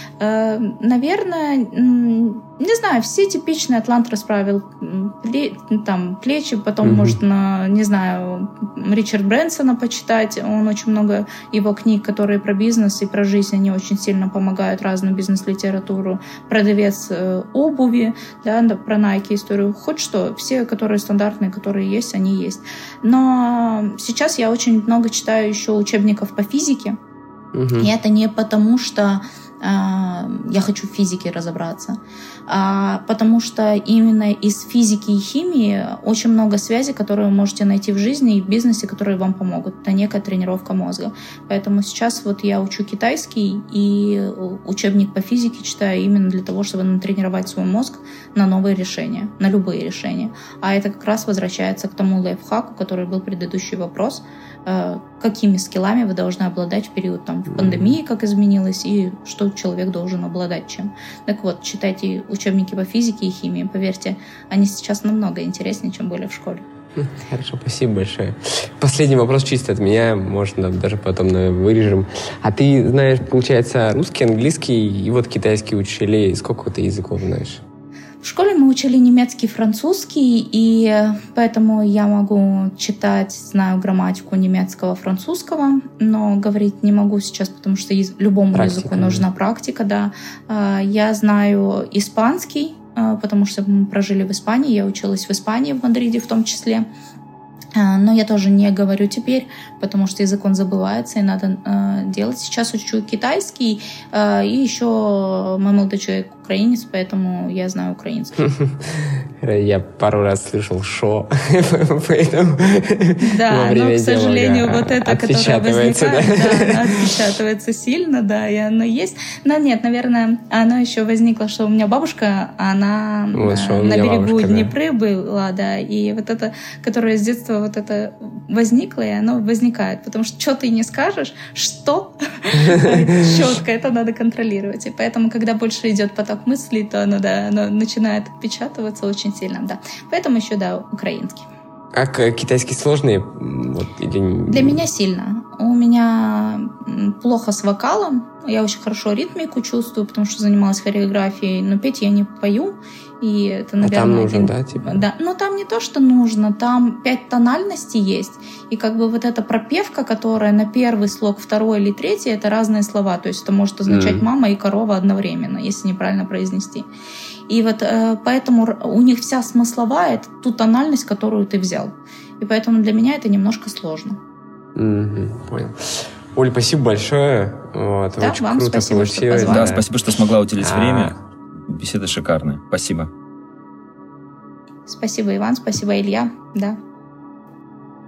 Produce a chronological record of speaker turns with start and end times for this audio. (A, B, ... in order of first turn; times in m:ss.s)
0:00.2-0:27.0 A
0:06.8-0:07.2 B
0:27.5-0:27.9 B
0:27.8-1:06.6 A
0:57.5-0:58.0 B
1:07.0-1:17.6 B
1:18.2-1:36.9 A
1:28.5-1:29.3 B
1:37.8-1:48.4 A
1:48.4-1:57.1 B
1:53.2-2:21.5 A
2:03.3-2:04.7 B
2:21.9-2:24.8 B
2:24.5-2:46.9 A
2:33.8-2:35.0 B
2:43.9-2:44.2 B
2:47.5-2:54.2 A
2:54.8-2:59.8 B
2:58.2-2:59.8 A
2:59.5-3:03.1 C
3:00.6-3:01.2 B
3:04.9-3:06.8 A